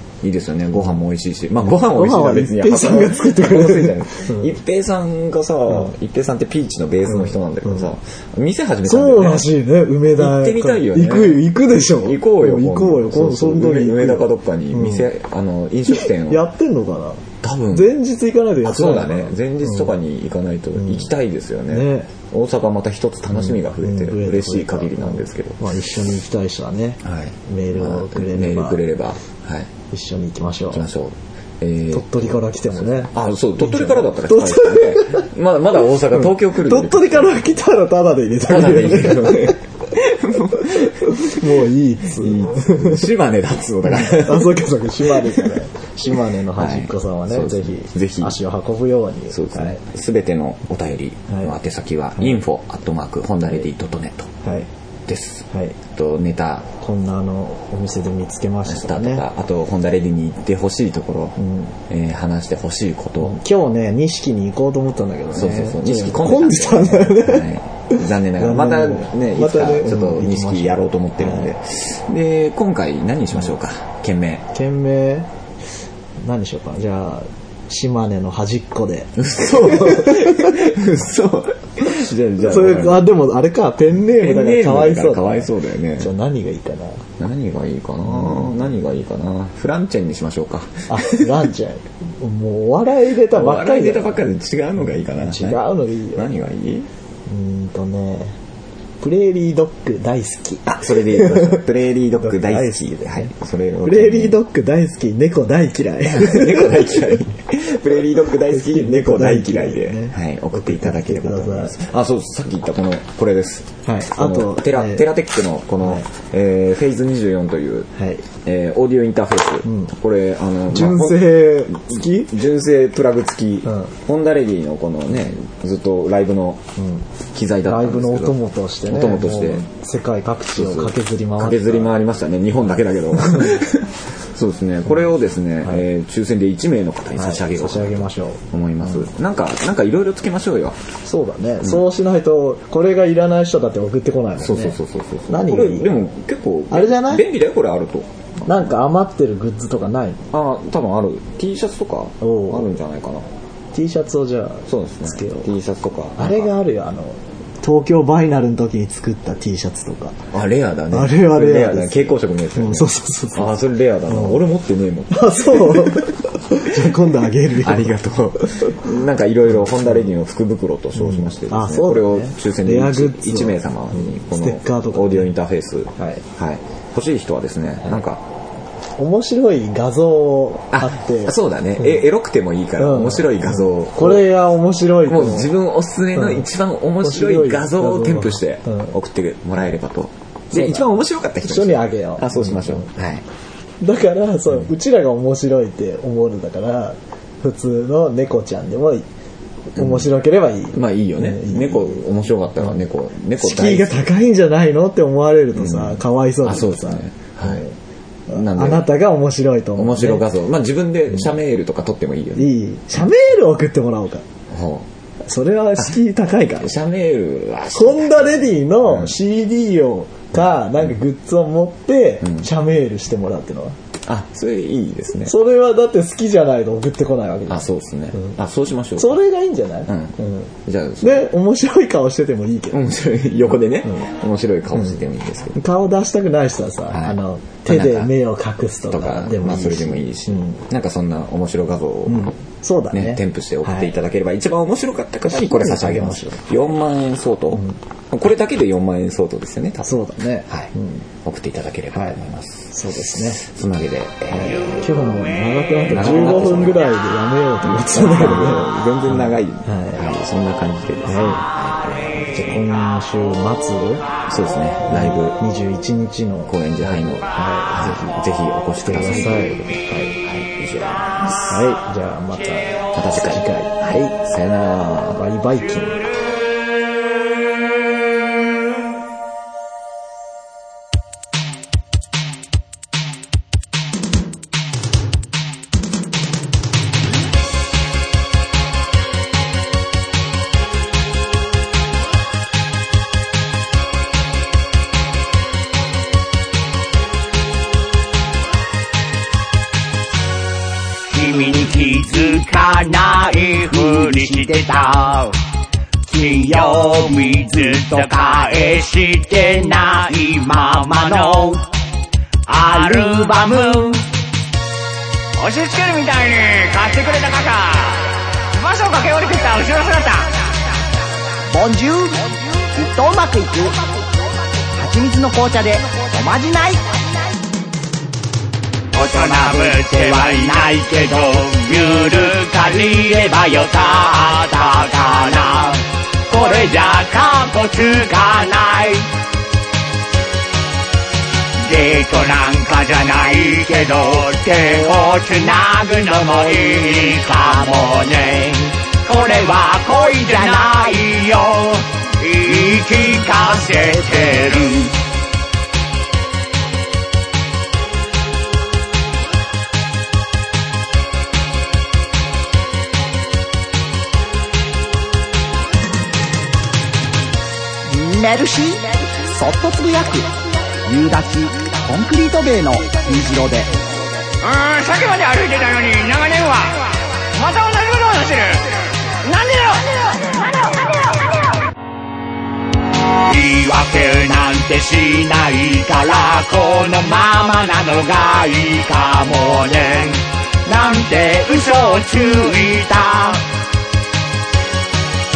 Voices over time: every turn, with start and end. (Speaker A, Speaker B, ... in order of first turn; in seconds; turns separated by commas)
Speaker A: 0.2-9.5, Speaker B: 1.7-4.5, Speaker B: 8.8-15.1, Speaker A: 10.2-16.5, Speaker B: 15.9-19.9, Speaker A: 17.4-18.0, Speaker A: 18.6-25.7, Speaker B: 21.7-22.1, Speaker B: 23.4-28.8, Speaker A: 27.0-29.7, Speaker B: 29.9-30.9, Speaker A: 30.7-37.4, Speaker B: 31.9-35.3, Speaker B: 36.3-39.6, Speaker A: 38.5-41.5, Speaker B: 40.7-43.1, Speaker A: 42.1-45.6, Speaker B: 43.9-49.8, Speaker A: 46.5-48.4, Speaker A: 49.3-54.3, Speaker A: 55.1-56.7, Speaker B: 55.5-55.8, Speaker B: 56.8-59.3, Speaker A: 58.6-61.4, Speaker B: 61.4-61.7, Speaker A: 61.9-63.4, Speaker B: 63.2-71.5, Speaker A: 65.3-74.5, Speaker B: 74.5-75.3, Speaker B: 76.2-80.7, Speaker A: 79.2-83.1, Speaker B: 82.4-87.0, Speaker A: 84.1-86.1, Speaker A: 87.2-91.3, Speaker B: 88.2-88.5, Speaker B: 90.9-94.1, Speaker A: 93.3-95.6, Speaker B: 95.0-96.3, Speaker A: 96.1-96.9, Speaker B: 97.3-98.4, Speaker B: 99.0-101.7, Speaker A: 100.7-104.4, Speaker B: 102.2-103.3, Speaker B: 103.8-107.2, Speaker A: 106.0-126.6, Speaker B: 108.5-111.8, Speaker B: 113.8-115.1, Speaker B: 115.8-116.1, Speaker B: 118.0-118.2, Speaker B: 119.7-119.9, Speaker B: 120.7-122.3, Speaker B: 123.7-123.9, Speaker B: 126.8-127.0, Speaker A: 127.3-129.7, Speaker B: 127.6-131.9, Speaker A: 130.5-140.8, Speaker B: 133.3-133.6, Speaker B: 137.2-139.1, Speaker B: 141.1-145.9, Speaker A: 144.4-148.7, Speaker B: 146.7-147.3, Speaker B: 148.4-150.3, Speaker A: 150.3-153.3, Speaker B: 152.2-152.7, Speaker B: 153.7-155.5, Speaker A: 154.7-156.5, Speaker B: 156.2-160.3, Speaker A: 160.3-178.2, Speaker B: 160.9-163.6, Speaker B: 164.1-164.4, Speaker B: 165.1-167.9, Speaker B: 171.0-175.3, Speaker B: 176.0-176.2, Speaker B: 179.0-182.0, Speaker A: 180.7-184.3, Speaker B: 182.8-185.5, Speaker A: 185.1-193.2, Speaker B: 186.2-186.4, Speaker B: 187.0-188.9, Speaker B: 190.5-190.9, Speaker B: 191.4-192.9, Speaker B: 193.8-199.1, Speaker B: 199.8-202.0, Speaker A: 200.7-204.1, Speaker B: 203.4-207.8, Speaker A: 205.6-207.6, Speaker A: 208.3-208.9, Speaker B: 208.3-210.2, Speaker A: 209.8-212.5, Speaker B: 212.4-214.2, Speaker A: 214.5-214.9, Speaker B: 215.2-216.8, Speaker A: 216.6-219.1, Speaker B: 217.7-223.8, Speaker A: 224.1-225.4, Speaker B: 225.3-228.3, Speaker A: 227.5-229.2, Speaker B: 229.0-232.9, Speaker A: 229.9-231.3, Speaker A: 232.7-235.6, Speaker B: 235.6-240.6, Speaker A: 236.9-238.1, Speaker A: 238.9-242.3, Speaker B: 242.1-243.9, Speaker A: 242.9-255.0, Speaker B: 245.3-246.4, Speaker B: 249.8-251.1, Speaker B: 251.9-252.2, Speaker B: 252.7-253.4, Speaker B: 254.3-260.1, Speaker A: 255.8-256.9, Speaker A: 257.6-262.7, Speaker B: 261.1-261.4, Speaker B: 262.3-264.1, Speaker A: 264.3-265.4, Speaker B: 264.9-268.2, Speaker A: 266.5-271.7, Speaker B: 268.8-270.2, Speaker B: 271.5-274.1, Speaker A: 272.9-275.2, Speaker B: 275.1-276.0, Speaker C: 301.1-305.4, Speaker D: 303.7-304.7, Speaker C: 306.1-311.6, Speaker D: 307.5-307.9, Speaker C: 312.5-314.0, Speaker D: 312.6-313.8, Speaker C: 315.4-320.3, Speaker D: 321.5-323.8, Speaker D: 324.8-327.0, Speaker C: 328.9-339.1, Speaker C: 341.6-355.0, Speaker D: 367.9-370.3, Speaker D: 370.8-373.7, Speaker C: 374.4-378.7, Speaker C: 379.2-380.2, Speaker C: 383.2-393.4